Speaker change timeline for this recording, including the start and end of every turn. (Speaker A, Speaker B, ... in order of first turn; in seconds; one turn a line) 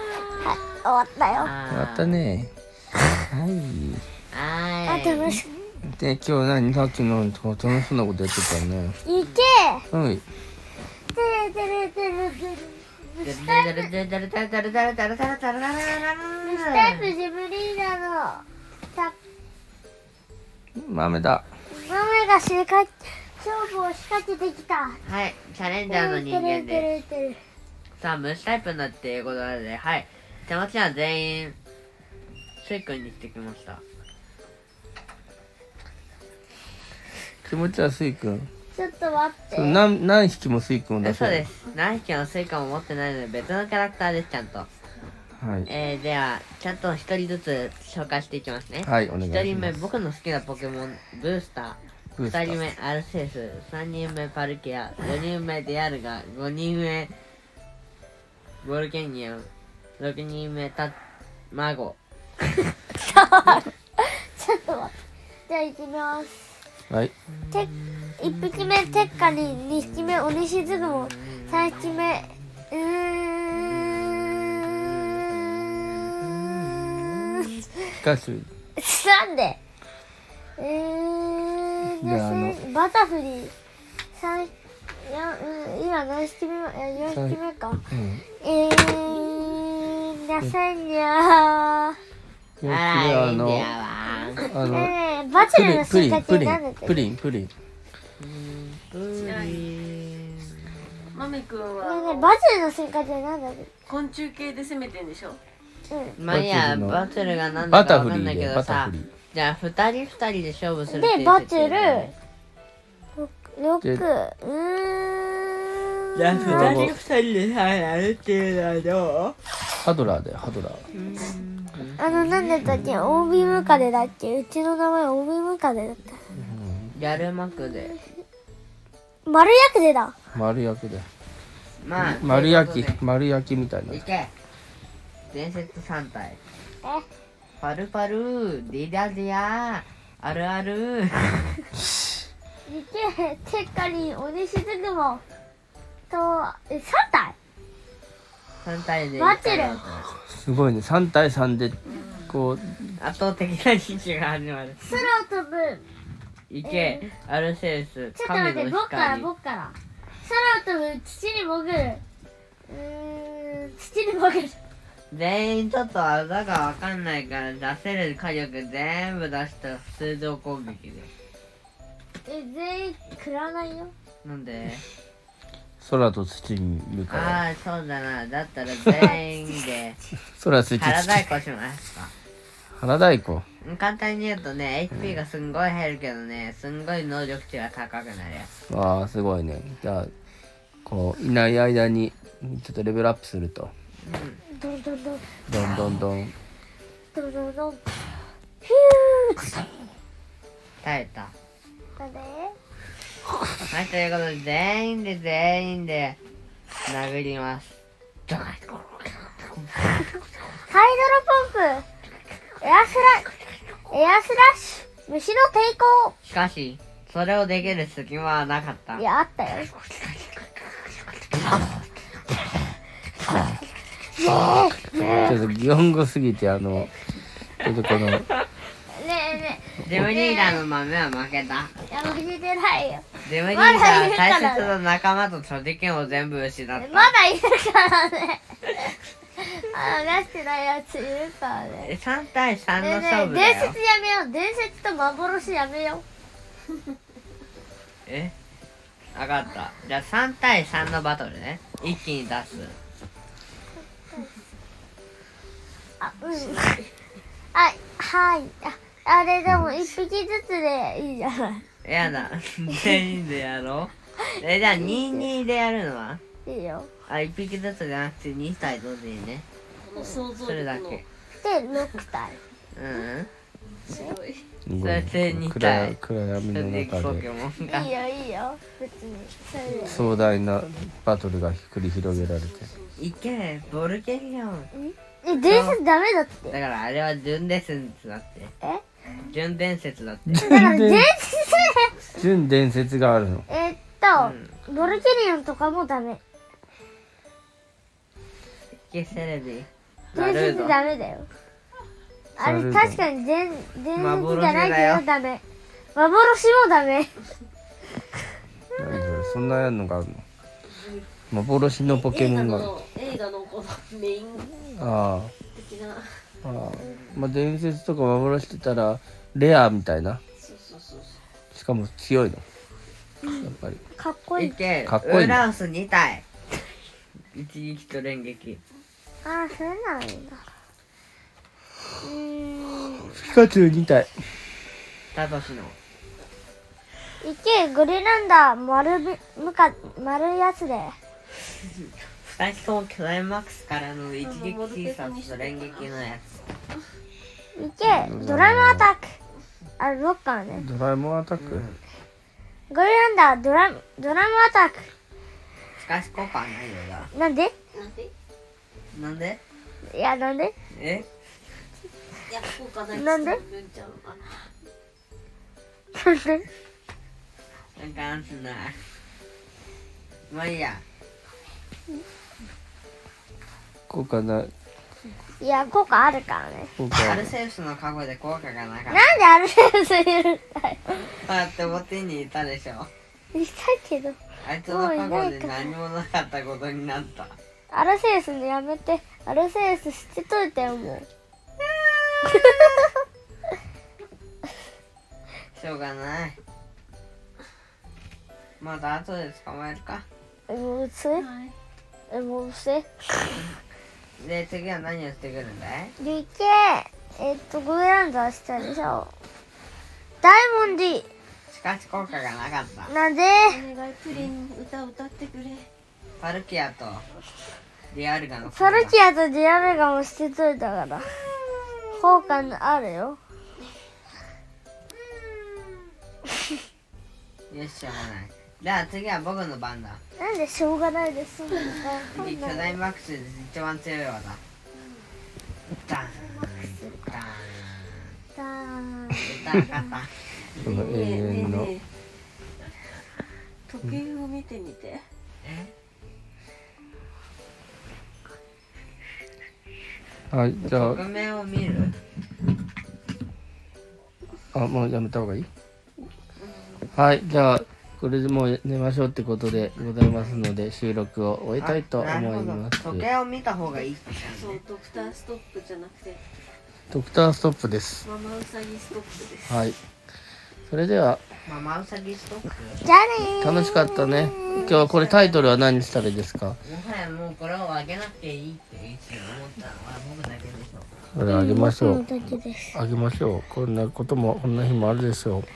Speaker A: 0.4-1.5
Speaker B: 1.4-2.2
Speaker C: 1.7-2.5
Speaker C: 3.3-4.0
Speaker B: 4.3-5.4
Speaker A: 4.9-5.5
Speaker C: 5.8-9.0
Speaker A: 9.1-9.9
Speaker C: 9.9-10.2
Speaker A: 11.1-13.9
Speaker B: 13.2-17.1
Speaker A: 16.4-19.2
Speaker C: 20.8-21.4
Speaker A: 21.7-25.0
Speaker B: 25.0-26.9
Speaker A: 25.9-27.4
Speaker B: 28.0-31.6
Speaker B: 32.6-33.8
Speaker C: 37.5-38.5
Speaker A: 38.7-39.8
Speaker C: 39.5-41.5
Speaker B: 41.0-44.7
Speaker C: 45.4-45.7
Speaker B: 45.7-57.1
Speaker C: 48.8-49.8
Speaker C: 52.2-52.6
Speaker B: 58.6-59.5
Speaker B: 60.0-61.0
Speaker B: 61.5-62.0
Speaker A: 62.9-64.9
Speaker A: 65.5-66.6
Speaker B: 67.3-69.6
Speaker A: 67.5-73.8
Speaker B: 71.2-72.1
Speaker B: 73.5-77.6
Speaker C: 78.0-78.5
Speaker A: 78.8-79.6
Speaker A: 80.6-83.5
Speaker C: 81.9-82.6
Speaker A: 84.2-87.8
Speaker C: 87.1-87.4
Speaker C: 87.9-88.2
Speaker A: 88.4-92.0
Speaker C: 92.6-93.7
Speaker B: 92.7-94.6
Speaker C: 94.5-97.5
Speaker A: 94.7-97.0
Speaker B: 98.2-100.8
Speaker D: 99.1-99.7
Speaker D: 101.1-102.3
Speaker A: 101.8-103.7
Speaker D: 103.9-105.4
Speaker A: 105.9-106.2
Speaker B: 106.2-112.1
Speaker C: 106.3-107.0
Speaker C: 107.7-109.1
Speaker A: 110.9-112.1
Speaker A: 113.2-116.9
Speaker B: 116.2-119.4
Speaker C: 116.3-117.0
Speaker C: 119.8-120.8
Speaker B: 120.9-122.4
Speaker A: 122.0-126.2
Speaker C: 126.3-126.9
Speaker B: 126.9-128.0
Speaker A: 129.3-130.2
Speaker C: 130.3-131.1
Speaker B: 131.8-133.0
Speaker C: 132.0-134.0
Speaker B: 133.9-134.3
Speaker B: 135.3-136.4
Speaker B: 137.6-141.4
Speaker A: 142.7-145.2
Speaker A: 146.1-147.3
Speaker B: 148.6-150.1
Speaker A: 149.2-149.8
Speaker C: 150.3-151.8
Speaker C: 152.3-153.0
Speaker B: 153.0-155.1
Speaker A: 154.8-155.8
Speaker B: 156.5-159.3
Speaker A: 156.7-157.1
Speaker A: 158.2-162.0
Speaker A: 162.7-164.6
Speaker B: 165.1-171.1
Speaker A: 172.3-173.9
Speaker B: 174.2-174.8
Speaker C: 175.8-177.4
Speaker B: 177.1-180.0
Speaker C: 180.4-181.3
Speaker B: 180.7-182.1
Speaker C: 182.8-183.4
Speaker B: 183.6-188.5
Speaker C: 188.7-190.1
Speaker C: 190.9-193.7
Speaker B: 194.0-194.4
Speaker A: 194.5-195.2
Speaker C: 195.5-196.3
Speaker A: 197.1-197.8
Speaker A: 198.6-199.7
Speaker B: 200.8-201.3
Speaker A: 202.0-202.6
Speaker B: 203.7-206.2
Speaker B: 206.9-210.2
Speaker A: 210.7-211.8
Speaker A: 212.6-213.3
Speaker A: 213.9-216.2
Speaker B: 216.2-219.0
Speaker A: 219.0-219.7
Speaker B: 219.8-221.4
Speaker A: 224.1-225.3
Speaker C: 225.0-226.9
Speaker C: 227.6-228.3
Speaker A: 228.9-230.6
Speaker B: 229.8-231.8
Speaker A: 231.9-234.8
Speaker B: 233.2-237.1
Speaker A: 236.8-238.4
Speaker A: 239.4-241.9
Speaker B: 241.8-243.8
Speaker A: 242.8-246.0
Speaker B: 248.1-248.3
Speaker B: 249.1-252.8
Speaker A: 256.0-256.8
Speaker D: 256.4-256.9
Speaker A: 257.5-261.6
Speaker B: 261.8-266.2
Speaker A: 264.2-265.3
Speaker A: 266.4-266.9
Speaker B: 267.1-269.4
Speaker D: 269.8-271.1
Speaker B: 270.4-271.0
Speaker A: 271.4-272.4
Speaker B: 272.8-273.3
Speaker D: 273.9-274.5
Speaker C: 274.7-277.2
Speaker B: 274.8-276.0
Speaker B: 276.5-277.9
Speaker A: 277.7-280.0
Speaker D: 279.7-280.0
Speaker C: 279.8-282.7
Speaker D: 282.2-283.1
Speaker B: 283.0-284.7
Speaker A: 284.7-286.6
Speaker B: 285.3-285.8
Speaker B: 286.5-288.5
Speaker B: 289.3-290.5
Speaker C: 290.3-291.1
Speaker A: 290.4-292.0
Speaker C: 292.2-293.5
Speaker A: 293.5-296.2
Speaker B: 294.2-294.5
Speaker B: 298.9-300.8
Speaker A: 300.1-301.3
Speaker C: 302.4-303.0
Speaker A: 302.4-305.4
Speaker B: 304.0-305.0
Speaker A: 305.9-307.1
Speaker C: 308.8-310.2
Speaker D: 310.6-311.1
Speaker C: 311.3-312.7
Speaker D: 311.9-314.7
Speaker C: 314.8-315.3
Speaker D: 315.5-316.1
Speaker C: 316.4-320.2
Speaker B: 316.8-317.2
Speaker D: 320.4-321.2
Speaker C: 321.5-322.4
Speaker A: 323.2-324.6
Speaker C: 323.4-323.8
Speaker B: 324.4-326.2
Speaker C: 324.9-325.4
Speaker B: 327.3-328.6
Speaker A: 329.2-330.4
Speaker A: 332.0-333.1
Speaker C: 333.1-334.1
Speaker B: 335.1-335.8
Speaker A: 337.2-341.0
Speaker B: 342.2-346.4
Speaker D: 344.2-345.9
Speaker A: 347.6-349.1
Speaker C: 347.9-348.9
Speaker A: 349.8-350.6
Speaker C: 350.6-351.6
Speaker B: 351.4-351.8
Speaker A: 352.7-354.9
Speaker B: 355.8-357.1
Speaker A: 357.1-357.5
Speaker D: 357.7-358.1
Speaker B: 358.9-359.4
Speaker A: 359.9-360.5
Speaker B: 360.8-361.1
Speaker D: 362.3-364.5
Speaker A: 362.9-363.4
Speaker A: 365.9-366.5
Speaker B: 367.8-368.8
Speaker B: 370.3-370.8
Speaker C: 373.9-374.5
Speaker A: 375.4-376.7
Speaker C: 376.8-377.3
Speaker B: 376.9-379.0
Speaker A: 378.9-381.0
Speaker B: 381.1-382.9
Speaker A: 383.3-385.7
Speaker B: 384.4-387.4
Speaker A: 387.7-391.1
Speaker A: 392.2-392.9
Speaker B: 395.5-396.4
Speaker B: 398.6-400.1
Speaker A: 400.5-401.3
Speaker D: 401.1-401.6
Speaker A: 402.1-403.4
Speaker B: 404.2-405.9
Speaker A: 406.0-409.1
Speaker A: 410.2-411.1
Speaker B: 411.5-412.9
Speaker A: 412.9-413.6
Speaker D: 413.5-415.7
Speaker B: 416.2-417.1
Speaker B: 417.9-418.9
Speaker A: 418.5-421.1
Speaker A: 421.9-423.2
Speaker B: 427.5-430.0
Speaker A: 430.2-432.8
Speaker B: 432.1-434.4
Speaker B: 435.7-438.2
Speaker A: 436.4-437.1
Speaker A: 438.4-439.8
Speaker B: 439.2-440.1
Speaker C: 440.6-441.7
Speaker D: 440.6-441.9
Speaker D: 443.7-445.0
Speaker B: 445.4-445.7
Speaker C: 450.3-451.0
Speaker B: 450.6-451.9
Speaker C: 454.5-455.5
Speaker D: 456.4-456.9
Speaker C: 456.9-463.1
Speaker B: 461.6-464.6
Speaker D: 464.3-466.2
Speaker C: 466.9-468.1
Speaker D: 468.0-469.5
Speaker C: 469.5-469.8
Speaker C: 470.7-471.2
Speaker B: 471.5-472.8
Speaker A: 472.8-474.7
Speaker C: 473.4-476.6
Speaker B: 474.5-475.6
Speaker B: 476.6-480.9
Speaker C: 481.1-482.0
Speaker A: 481.2-482.8
Speaker C: 482.7-485.5